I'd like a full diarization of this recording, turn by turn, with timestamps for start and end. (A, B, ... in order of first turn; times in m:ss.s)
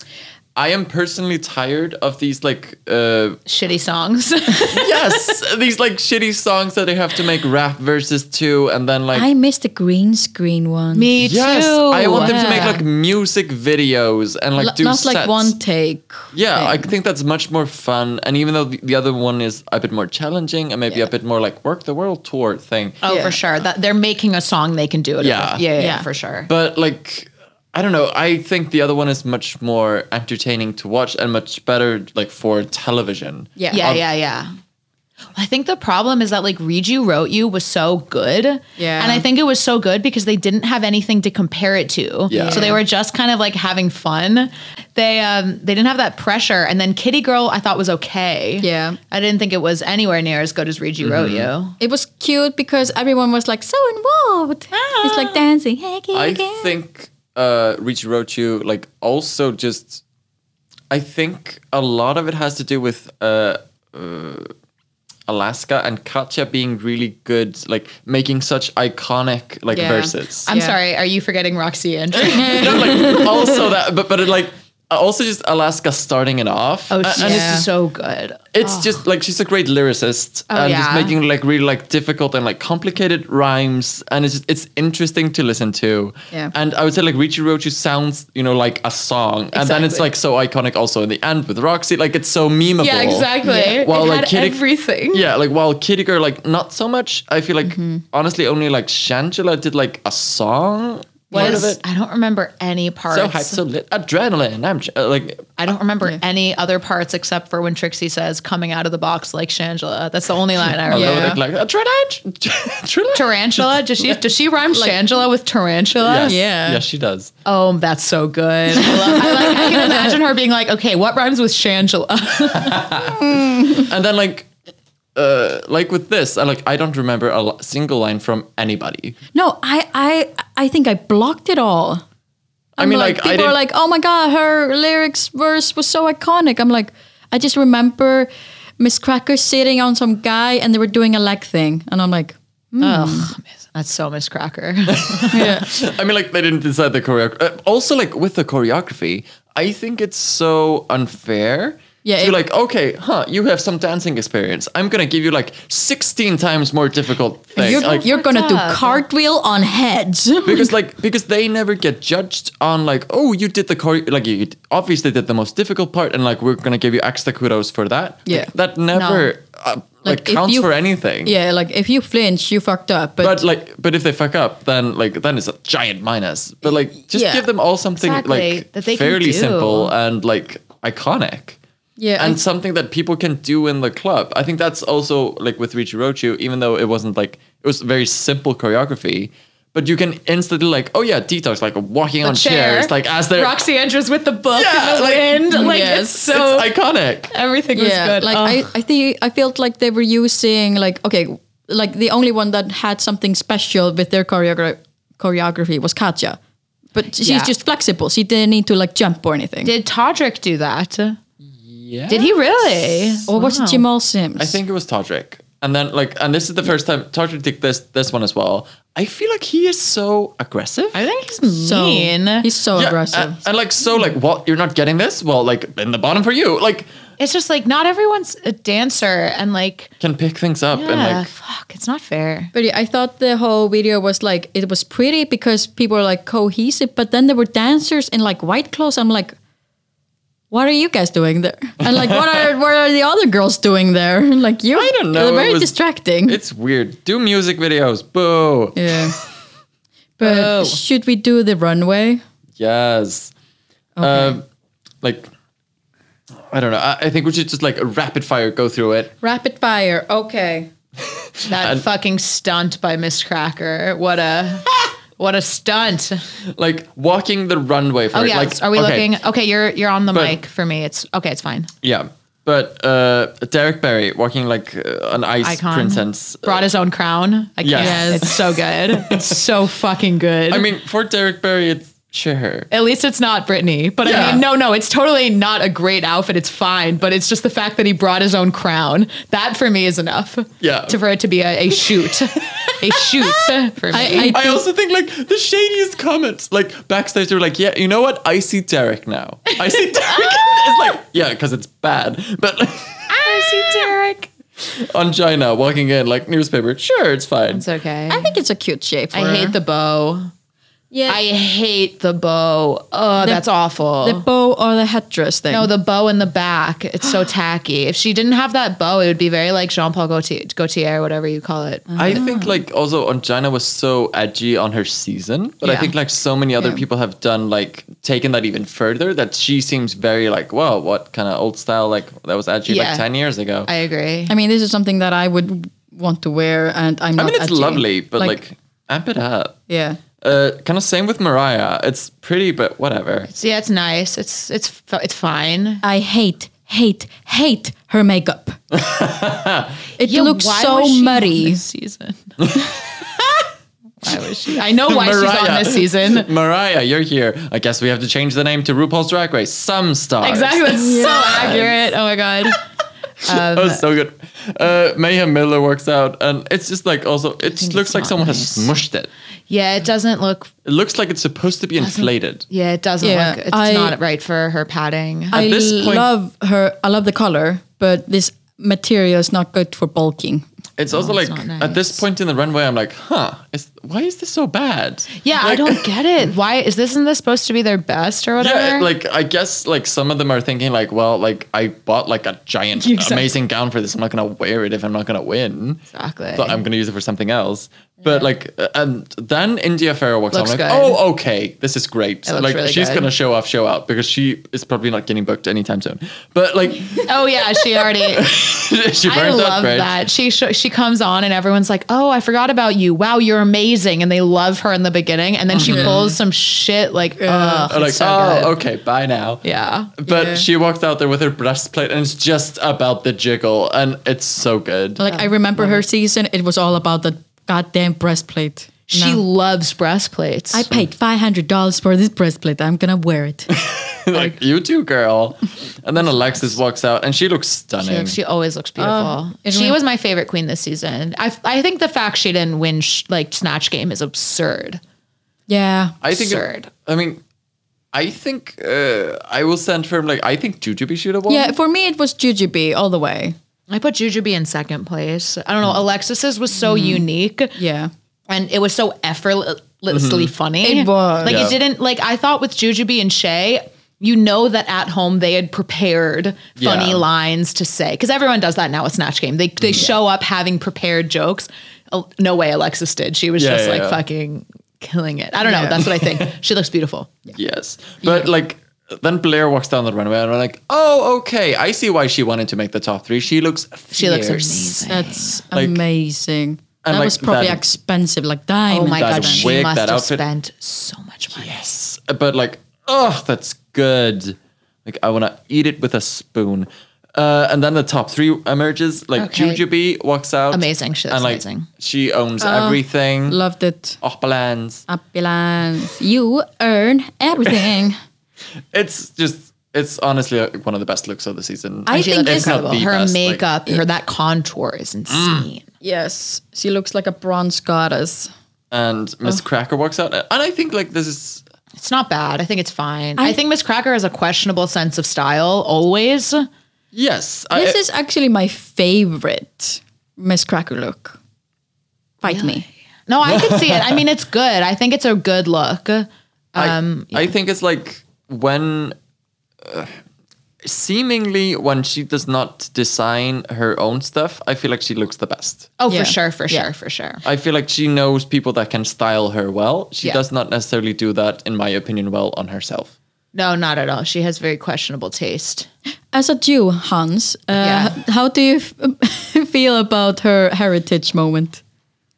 0:00.5-0:03.4 A
0:03.5-0:05.2 B
0:04.7-0:09.3 A
0:09.1-0:11.1 C
0:10.9-0:12.8 B
0:11.2-0:15.5 A
0:12.1-0:12.8 C
0:14.6-0:16.8 C
0:16.3-0:23.0 A
0:23.0-0:26.5 B
0:23.0-0:23.4 C
0:25.2-0:25.6 A
0:25.8-0:26.0 C
0:26.5-0:34.0 A
0:33.6-0:33.8 C
0:33.7-0:34.5 B
0:35.3-0:51.8 B
0:38.8-0:39.2 C
0:42.3-0:42.8 A
0:42.3-0:42.8 C
0:48.6-0:49.0 C
0:51.0-0:51.5 A
0:51.8-0:56.8 C
0:54.7-0:55.4 B
0:56.1-1:00.0 A
1:00.9-1:04.5 A
1:05.3-1:10.5 A
1:09.7-1:10.8 C
1:10.4-1:13.2 B
1:12.1-1:17.6 A
1:12.3-1:13.6 C
1:16.9-1:18.9 B
1:17.1-1:17.6 C
1:18.5-1:34.6 A
1:20.5-1:21.1 B
1:29.5-1:30.0 B
1:32.8-1:35.2 B
1:33.4-1:33.8 C
1:35.1-1:41.8 A
1:37.6-1:38.0 C
1:41.3-1:41.8 C
1:41.3-1:43.6 B
1:43.1-1:45.6 A
1:45.6-1:51.3 B
1:50.9-1:54.1 A
1:50.9-1:51.4 C
1:53.1-1:56.4 B
1:56.0-1:57.3 A
1:56.2-1:56.8 C
1:57.4-2:03.0 B
1:58.7-2:00.2 C
2:02.5-2:04.5 A
2:03.1-2:03.9 C
2:05.1-2:09.2 A
2:09.3-2:12.0 C
2:12.8-2:23.3 C
2:12.8-2:13.6 A
2:22.8-2:25.4 B
2:24.9-2:38.0 A
2:25.3-2:25.7 C
2:32.0-2:32.4 C
2:37.6-2:40.7 C
2:37.6-2:39.0 B
2:40.4-2:51.3 A
2:48.9-2:49.3 B
2:50.0-2:50.7 C
2:51.2-2:53.4 C
2:53.2-3:01.6 A
2:57.1-2:57.4 C
2:58.0-2:59.9 B
3:02.0-3:02.4 C
3:02.2-3:13.6 A
3:12.2-3:16.7 B
3:14.5-3:17.3 A
3:15.5-3:16.2 C
3:17.3-3:18.7 B
3:17.7-3:26.4 C
3:26.9-3:29.7 C
3:27.2-3:27.5 B
3:29.6-3:31.2 B
3:31.6-3:33.2 A
3:32.1-3:33.8 B
3:33.3-3:34.6 C
3:34.4-3:41.0 A
3:40.9-3:42.5 B
3:41.5-3:43.4 C
3:42.8-3:46.9 A
3:47.2-3:49.9 B
3:50.0-3:51.3 A
3:50.7-3:52.5 B
3:52.5-3:59.4 C
4:00.5-4:06.4 C
4:01.8-4:02.5 A
4:04.7-4:05.7 A
4:06.3-4:09.2 A
4:08.8-4:09.2 C
4:10.2-4:12.2 C
4:10.2-4:10.8 B
4:12.6-4:13.3 A
4:14.0-4:14.4 C
4:14.0-4:14.4 A
4:15.0-4:15.3 A
4:16.4-4:19.1 A
4:19.2-4:20.7 C
4:21.0-4:21.8 A
4:21.5-4:26.2 B
4:26.5-4:29.1 A
4:28.1-4:31.7 B
4:30.1-4:30.4 A
4:31.8-4:36.7 A
4:35.4-4:40.7 B
4:37.6-4:39.4 A
4:37.8-4:38.3 C
4:40.5-4:42.7 A
4:42.7-4:54.4 B
4:44.0-4:44.4 A
4:50.6-4:51.0 A
4:52.5-5:03.9 A
4:53.9-4:54.6 C
5:00.1-5:00.4 B
5:03.1-5:04.3 B
5:04.6-5:07.6 A
5:07.5-5:08.3 B
5:08.1-5:09.6 C
5:09.1-5:10.3 B
5:10.9-5:11.2 C
5:11.1-5:14.2 B
5:14.0-5:15.7 C
5:15.5-5:22.2 B
5:21.9-5:22.6 C
5:22.0-5:33.7 A
5:25.6-5:25.9 B
5:32.7-5:33.0 B
5:33.6-5:34.3 B
5:34.3-5:38.4 C
5:37.2-5:39.6 A
5:39.7-5:40.0 C
5:40.2-5:43.3 A
5:43.3-5:45.8 B
5:45.8-5:48.6 C
5:48.7-5:49.8 A
5:50.0-5:51.6 C
5:50.0-5:52.3 B
5:52.4-5:52.7 A
5:54.0-5:56.3 B
5:54.8-6:01.8 A
6:00.2-6:02.6 B
6:00.7-6:01.5 C
6:03.2-6:03.8 B
6:03.2-6:09.1 A
6:07.4-6:08.7 B
6:09.5-6:10.5 B
6:10.6-6:12.4 A
6:11.8-6:15.4 B
6:13.0-6:13.9 C
6:15.3-6:16.1 A
6:15.3-6:20.4 C
6:20.8-6:25.8 A
6:20.9-6:22.0 B
6:25.2-6:28.9 B
6:28.4-6:35.8 A
6:32.8-6:33.3 B
6:35.9-6:36.6 B
6:36.3-6:50.0 A
6:40.3-6:41.0 B
6:42.2-6:43.1 B
6:47.0-6:48.3 B
6:49.0-6:58.5 B
6:55.5-6:56.1 A
6:55.6-6:56.1 C
6:57.2-6:57.7 C
6:57.7-6:59.4 A
6:59.4-6:59.9 B
7:00.0-7:05.0 A
7:00.1-7:00.4 C
7:05.0-7:09.2 C
7:05.1-7:05.8 B
7:08.9-7:10.7 B
7:10.5-7:13.5 C
7:13.5-7:18.2 A
7:17.8-7:24.8 B
7:18.8-7:19.8 C
7:25.5-7:26.0 C
7:26.0-7:27.2 A
7:26.1-7:26.7 B
7:27.9-7:31.5 A
7:31.3-7:33.4 C
7:33.7-7:37.6 B
7:36.6-7:37.0 C
7:37.6-7:37.9 C
7:38.3-7:57.2 B
7:39.9-7:40.3 A
7:40.6-7:41.5 C
7:41.2-7:41.6 A
7:46.6-7:47.0 A
7:53.4-7:54.0 A
7:55.4-7:55.8 C
7:56.0-7:56.3 A
7:57.3-8:04.9 A
8:03.9-8:05.4 B
8:04.9-8:09.5 C
8:05.5-8:05.8 A
8:06.8-8:07.6 A
8:08.7-8:11.6 B
8:09.0-8:10.2 A
8:11.3-8:23.4 A
8:19.2-8:19.6 B
8:20.5-8:21.7 B
8:22.4-8:24.0 C
8:24.0-8:24.8 A
8:24.9-8:28.0 C
8:28.7-8:33.4 A
8:31.9-8:32.6 C
8:31.9-8:35.6 B
8:35.1-8:35.4 A
8:35.8-8:38.3 C
8:38.7-8:41.4 A
8:41.8-8:46.5 B
8:46.9-8:47.8 A
8:47.5-8:51.2 C
8:52.2-8:52.6 C
8:52.3-8:57.3 B
8:53.2-8:54.0 A
8:56.6-8:58.9 A
8:59.6-9:00.0 A
9:00.6-9:05.7 A
9:05.8-9:07.2 B
9:05.9-9:06.6 C
9:07.2-9:12.9 A
9:13.3-9:15.7 B
9:16.1-9:21.6 C
9:17.6-9:18.0 B